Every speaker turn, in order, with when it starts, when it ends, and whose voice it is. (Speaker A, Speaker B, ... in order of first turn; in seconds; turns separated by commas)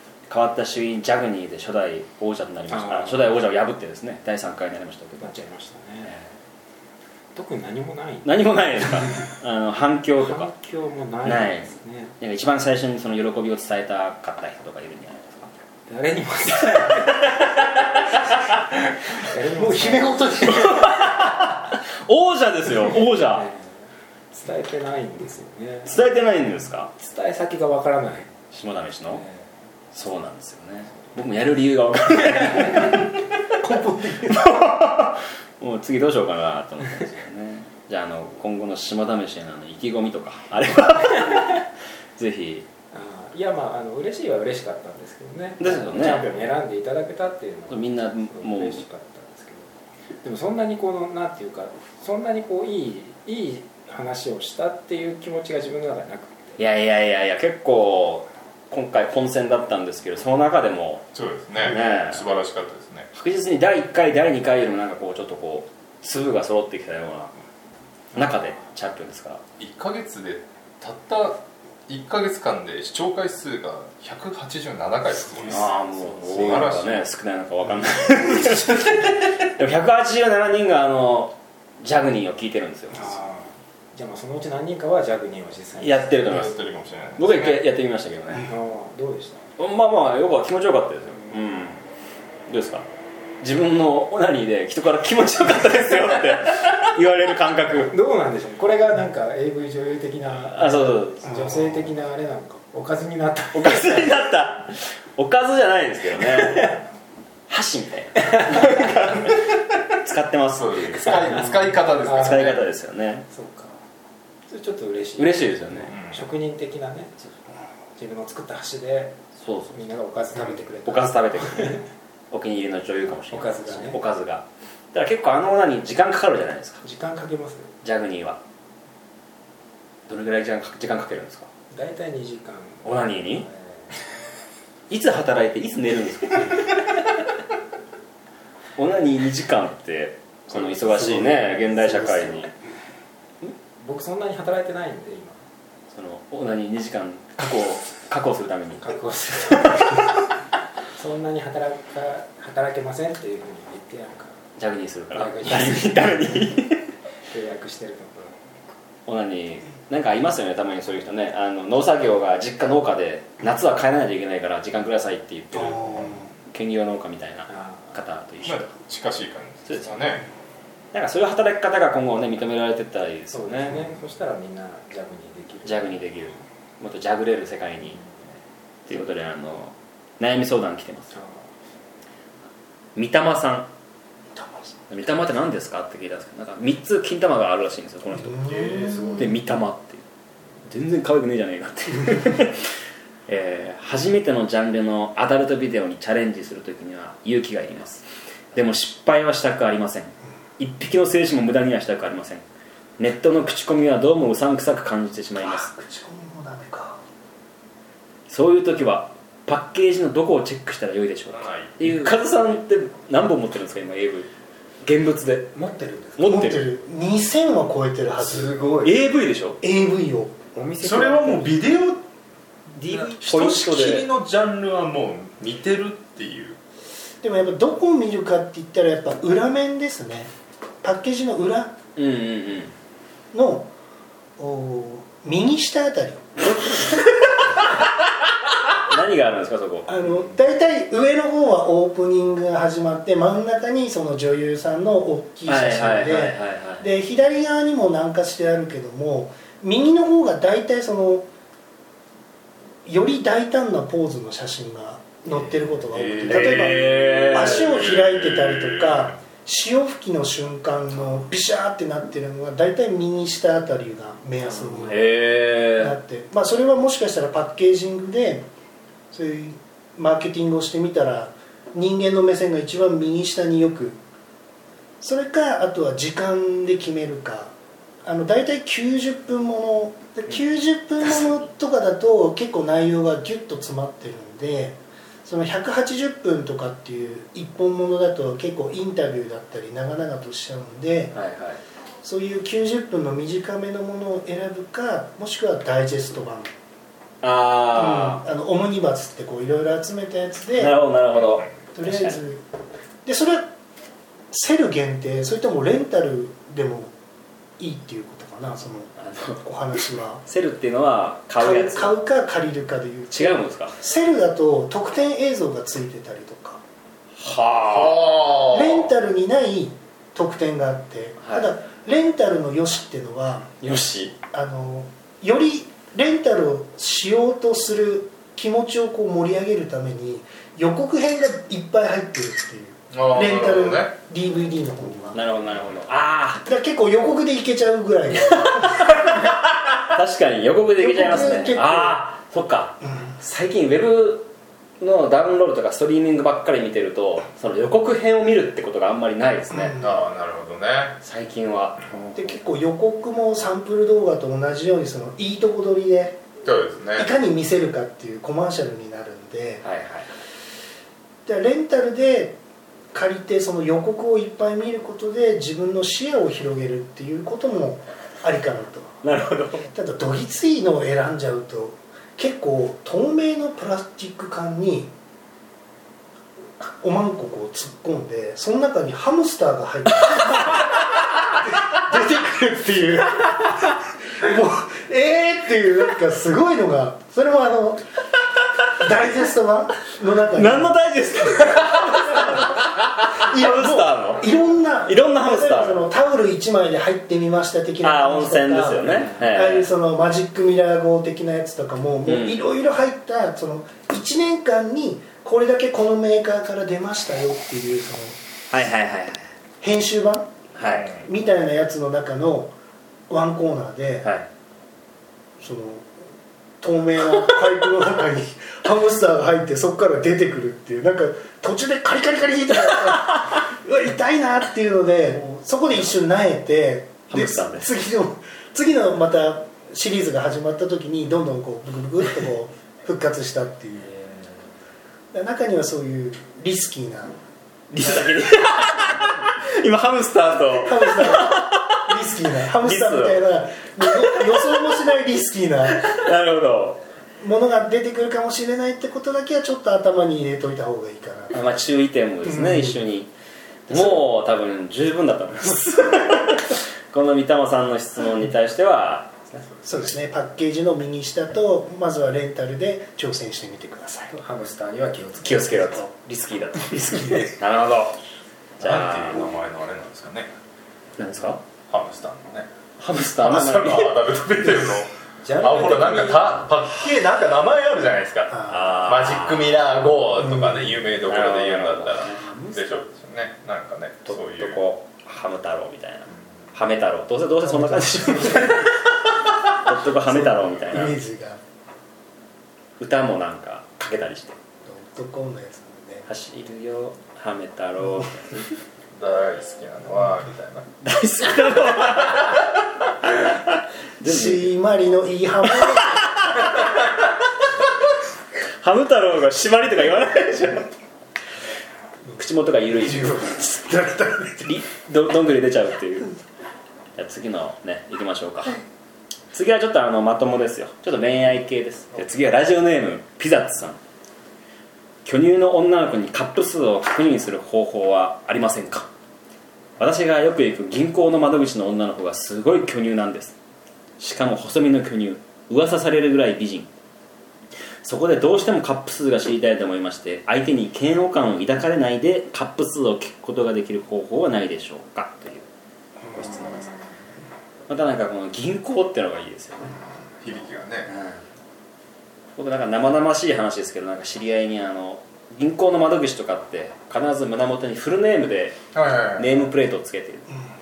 Speaker A: 0.3-5.3, Speaker B: 2.7-3.3, Speaker B: 5.2-6.2, Speaker A: 6.0-6.3, Speaker B: 7.3-9.2, Speaker A: 8.2-10.5, Speaker B: 10.2-12.1, Speaker A: 11.2-15.5, Speaker B: 15.9-17.9, Speaker A: 16.9-18.5, Speaker B: 19.1-20.5, Speaker C: 19.5-20.9, Speaker A: 20.4-23.5, Speaker B: 22.8-23.7, Speaker B: 24.3-26.0, Speaker A: 25.8-26.9, Speaker B: 27.0-28.3, Speaker A: 28.5-29.2, Speaker B: 29.1-29.4, Speaker A: 29.9-33.2, Speaker C: 33.6-34.6, Speaker A: 34.2-42.7, Speaker B: 42.9-49.7, Speaker A: 45.6-46.3, Speaker A: 47.7-48.9, Speaker B: 50.2-56.6, Speaker A: 56.6-61.1, Speaker D: 61.1-63.1, Speaker A: 61.6-62.2, Speaker A: 63.1-67.3, Speaker A: 68.1-69.4, Speaker D: 69.6-77.1, Speaker A: 75.5-83.1, Speaker B: 82.9-86.2, Speaker A: 85.8-86.6, Speaker D: 86.2-87.6, Speaker A: 87.2-88.5, Speaker B: 88.4-89.4, Speaker A: 89.6-91.8, Speaker A: 92.5-92.9, Speaker A: 93.4-97.9, Speaker B: 97.8-104.1, Speaker A: 100.5-101.4, Speaker A: 103.5-106.8, Speaker B: 106.3-106.7, Speaker A: 107.5-109.5, Speaker B: 108.3-109.2, Speaker A: 110.0-111.3, Speaker D: 110.5-112.6, Speaker B: 111.1-112.5, Speaker A: 112.0-113.3, Speaker B: 113.3-113.8, Speaker B: 114.5-117.1, Speaker A: 115.2-116.0, Speaker D: 115.9-116.2, Speaker B: 118.0-119.2, Speaker A: 119.3-119.8, Speaker B: 119.7-121.8, Speaker A: 120.8-126.8, Speaker B: 123.3-124.0, Speaker B: 126.8-127.7, Speaker A: 127.8-128.4, Speaker A: 130.1-131.5, Speaker B: 131.7-133.9, Speaker A: 132.8-133.5, Speaker A: 134.9-136.9, Speaker A: 138.8-142.5, Speaker B: 143.8-145.4, Speaker A: 145.9-148.9, Speaker B: 148.8-150.2, Speaker A: 149.5-150.1, Speaker B: 150.9-154.4, Speaker A: 154.6-156.8, Speaker B: 155.1-156.2, Speaker B: 157.3-158.3, Speaker A: 159.1-168.7, Speaker C: 165.6-166.3, Speaker B: 167.5-167.9, Speaker D: 168.4-170.2, Speaker A: 169.7-169.9, Speaker A: 170.9-173.8, Speaker B: 173.3-176.3, Speaker A: 175.6-178.0, Speaker A: 178.8-181.1, Speaker B: 181.1-181.4, Speaker A: 182.9-183.7, Speaker C: 184.3-184.8, Speaker A: 184.9-190.0, Speaker C: 188.2-189.2, Speaker D: 188.4-189.3, Speaker A: 190.6-192.7, Speaker A: 193.3-202.4, Speaker A: 203.0-205.7, Speaker C: 205.4-207.0, Speaker A: 208.3-214.3, Speaker D: 211.3-211.8, Speaker A: 214.8-215.6, Speaker B: 215.5-216.2, Speaker A: 216.2-216.7, Speaker C: 216.2-218.6, Speaker B: 218.3-218.8, Speaker D: 218.4-218.8, Speaker A: 218.8-219.6, Speaker C: 219.6-220.3, Speaker B: 220.5-221.7, Speaker D: 220.8-222.0, Speaker D: 222.8-226.6, Speaker A: 222.9-224.1, Speaker C: 227.2-230.3, Speaker C: 230.8-231.8, Speaker A: 231.9-232.7, Speaker C: 233.3-233.7, Speaker C: 234.4-236.8, Speaker A: 238.6-239.9, Speaker C: 239.9-251.3, Speaker A: 245.4-246.9, Speaker C: 252.8-265.1, Speaker D: 256.1-258.9, Speaker A: 256.2-257.8, Speaker A: 264.9-266.0, Speaker C: 265.7-268.4, Speaker C: 269.1-274.0, Speaker C: 275.0-277.5, Speaker C: 278.0-291.1, Speaker A: 291.1-291.6, Speaker C: 292.0-296.5, Speaker A: 297.2-298.2, Speaker C: 297.7-300.8, Speaker A: 300.6-302.2, Speaker C: 301.7-302.4, Speaker C: 303.0-303.5, Speaker C: 304.3-306.9, Speaker C: 307.6-310.2, Speaker A: 309.0-309.4, Speaker A: 310.2-312.0, Speaker C: 311.4-316.6, Speaker A: 313.1-313.8, Speaker A: 317.2-318.2, Speaker D: 317.7-318.7, Speaker C: 318.4-323.5, Speaker A: 321.2-321.5, Speaker A: 323.6-324.1, Speaker C: 324.3-335.2, Speaker D: 332.9-333.9, Speaker A: 335.1-336.4, Speaker C: 336.4-339.0, Speaker A: 338.5-349.8, Speaker C: 340.8-342.0, Speaker C: 342.8-343.1, Speaker C: 349.5-350.0, Speaker D: 349.8-351.0, Speaker A: 351.0-352.4, Speaker C: 352.1-356.2, Speaker D: 356.4-357.1, Speaker C: 356.9-359.6, Speaker A: 359.6-360.1, Speaker C: 361.2-362.4, Speaker C: 362.9-369.0, Speaker A: 369.0-369.6, Speaker C: 369.6-374.9, Speaker C: 376.8-387.8, Speaker C: 388.7-390.8, Speaker A: 390.3-394.2, Speaker C: 391.4-392.4, Speaker C: 393.2-408.2, Speaker A: 394.8-395.8, Speaker A: 397.8-399.7, Speaker B: 398.9-399.3, Speaker A: 402.1-402.4, Speaker A: 408.5-409.3, Speaker C: 409.6-410.3, Speaker A: 410.5-410.9, Speaker D: 410.7-411.1, Speaker C: 411.0-412.5, Speaker C: 413.1-414.1, Speaker A: 414.0-414.3, Speaker C: 415.4-415.9, Speaker C: 416.6-433.9, Speaker A: 427.1-427.7, Speaker C: 435.1-437.2, Speaker A: 437.7-441.9, Speaker C: 440.5-446.1, Speaker A: 442.6-443.3, Speaker A: 443.9-444.8, Speaker A: 445.8-446.8, Speaker C: 447.2-451.4, Speaker A: 451.3-453.1, Speaker C: 452.2-452.9, Speaker A: 453.7-459.5, Speaker C: 453.7-454.0, Speaker C: 459.6-464.1, Speaker B: 464.1-465.9, Speaker A: 465.2-468.0, Speaker A: 468.6-469.3, Speaker D: 468.6-470.3, Speaker A: 471.0-471.4, Speaker D: 471.7-472.5, Speaker A: 472.8-474.2, Speaker D: 473.2-484.6, Speaker B: 475.2-476.5, Speaker A: 478.5-479.6, Speaker C: 480.2-480.8, Speaker A: 481.0-482.8, Speaker A: 484.0-488.9, Speaker C: 487.4-488.7, Speaker A: 489.4-491.0, Speaker C: 490.0-491.4, Speaker A: 492.8-494.4, Speaker C: 494.6-496.1, Speaker A: 496.1-498.5, Speaker D: 498.9-500.7, Speaker A: 500.8-504.5, Speaker C: 504.0-506.2, Speaker A: 506.2-506.6, Speaker A: 508.6-510.7, Speaker A: 512.1-513.4, Speaker C: 512.8-514.5, Speaker A: 514.4-516.1, Speaker A: 517.0-518.6, Speaker A: 519.3-523.8, Speaker A: 525.0-528.9, Speaker A: 529.8-533.4, Speaker A: 534.0-536.7, Speaker A: 537.8-545.5, Speaker A: 546.1-546.8, Speaker A: 547.7-549.8, Speaker D: 550.2-550.9, Speaker A: 550.9-551.2, Speaker A: 552.4-558.6, Speaker D: 558.7-559.4, Speaker A: 559.1-560.3